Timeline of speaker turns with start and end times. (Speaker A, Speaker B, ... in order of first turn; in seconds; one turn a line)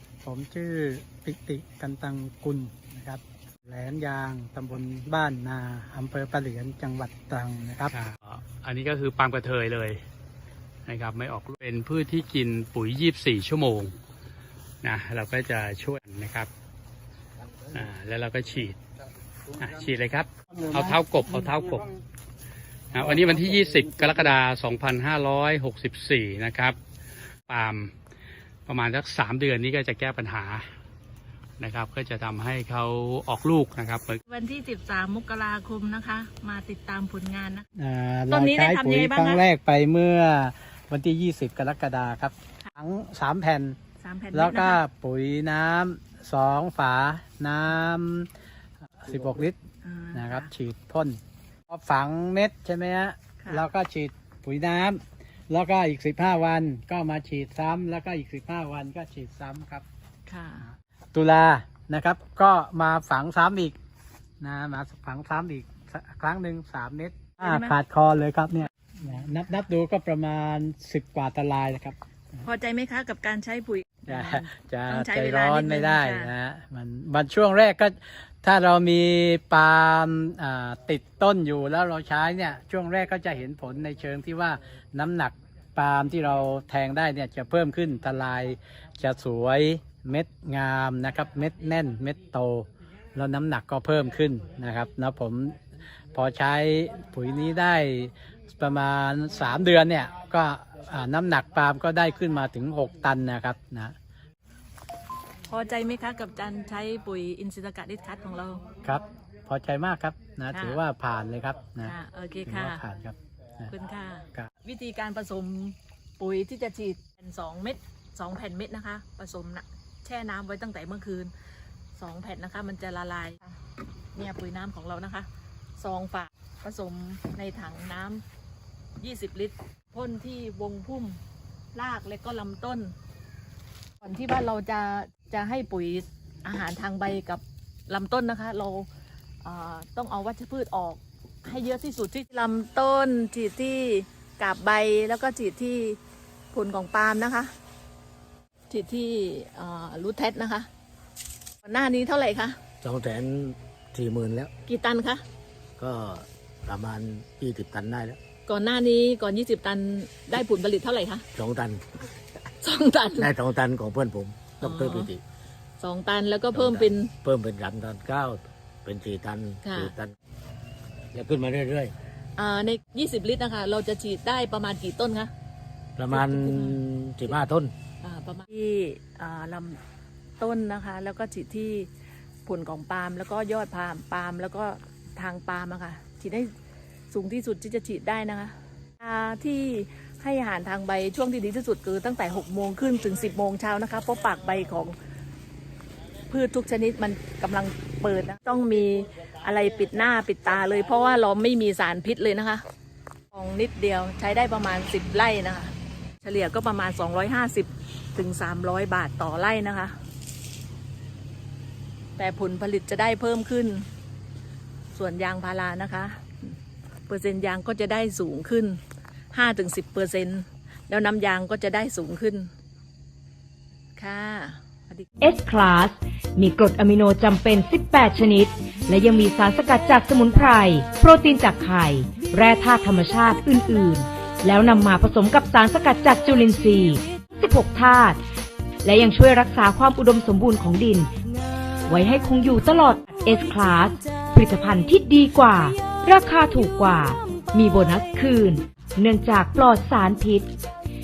Speaker A: 0.2-7.9
Speaker B: 7.9-10.0
Speaker B: 10.9-13.9
Speaker B: 14.8-16.5
Speaker B: 17.7-18.8
Speaker B: 19.6-21.9
Speaker B: 22.9-26.8
Speaker B: 27.5-27.9
Speaker B: 28.7-30.6
Speaker B: 31.6-34.2
Speaker C: 34.3-37.6
Speaker A: 37.8-43.8
Speaker C: 38.3-39.4
Speaker C: 44.0-44.8
Speaker A: 44.3-48.3
Speaker A: 49.0-49.5
Speaker C: 49.8-50.5
Speaker A: 50.1-51.2
Speaker A: 51.7-59.9
Speaker C: 53.4-53.7
Speaker C: 60.3-60.6
Speaker A: 60.7-63.8
Speaker A: 64.4-72.0
Speaker C: 67.4-67.8
Speaker C: 72.4-76.3
Speaker A: 74.1-95.6
Speaker A: 96.1-103.9
Speaker C: 105.5-108.6
Speaker A: 108.8-111.9
Speaker C: 110.5-110.8
Speaker C: 111.8-112.8
Speaker A: 112.5-113.7
Speaker C: 113.7-121.3
Speaker C: 122.0-123.6
Speaker C: 124.1-125.3
Speaker C: 125.8-128.2
Speaker C: 129.0-131.2
Speaker C: 131.7-132.9
Speaker C: 134.0-138.9
Speaker C: 139.4-146.0
Speaker C: 146.5-147.5
Speaker C: 148.7-150.7
Speaker C: 151.6-152.6
Speaker D: 152.8-154.5
Speaker C: 154.7-155.2
Speaker D: 155.8-158.2
Speaker C: 158.5-161.2
Speaker D: 161.3-161.8
Speaker C: 162.6-163.3
Speaker D: 163.2-165.2
Speaker C: 164.6-165.1
Speaker C: 165.8-167.1
Speaker D: 166.5-170.1
Speaker C: 169.6-169.9
Speaker D: 171.1-171.9
Speaker C: 172.4-175.3
Speaker D: 176.0-177.7
Speaker C: 176.1-176.8
Speaker C: 178.0-179.8
Speaker C: 180.4-181.9
Speaker C: 182.4-186.5
Speaker C: 187.1-194.9
Speaker C: 196.3-202.6
Speaker C: 203.3-209.9
Speaker C: 212.2-213.9
Speaker C: 214.9-216.6
Speaker C: 217.1-218.8
Speaker C: 219.3-222.5
Speaker C: 224.0-225.1
Speaker E: 225.2-238.2
Speaker E: 238.8-241.1
Speaker E: 241.8-250.6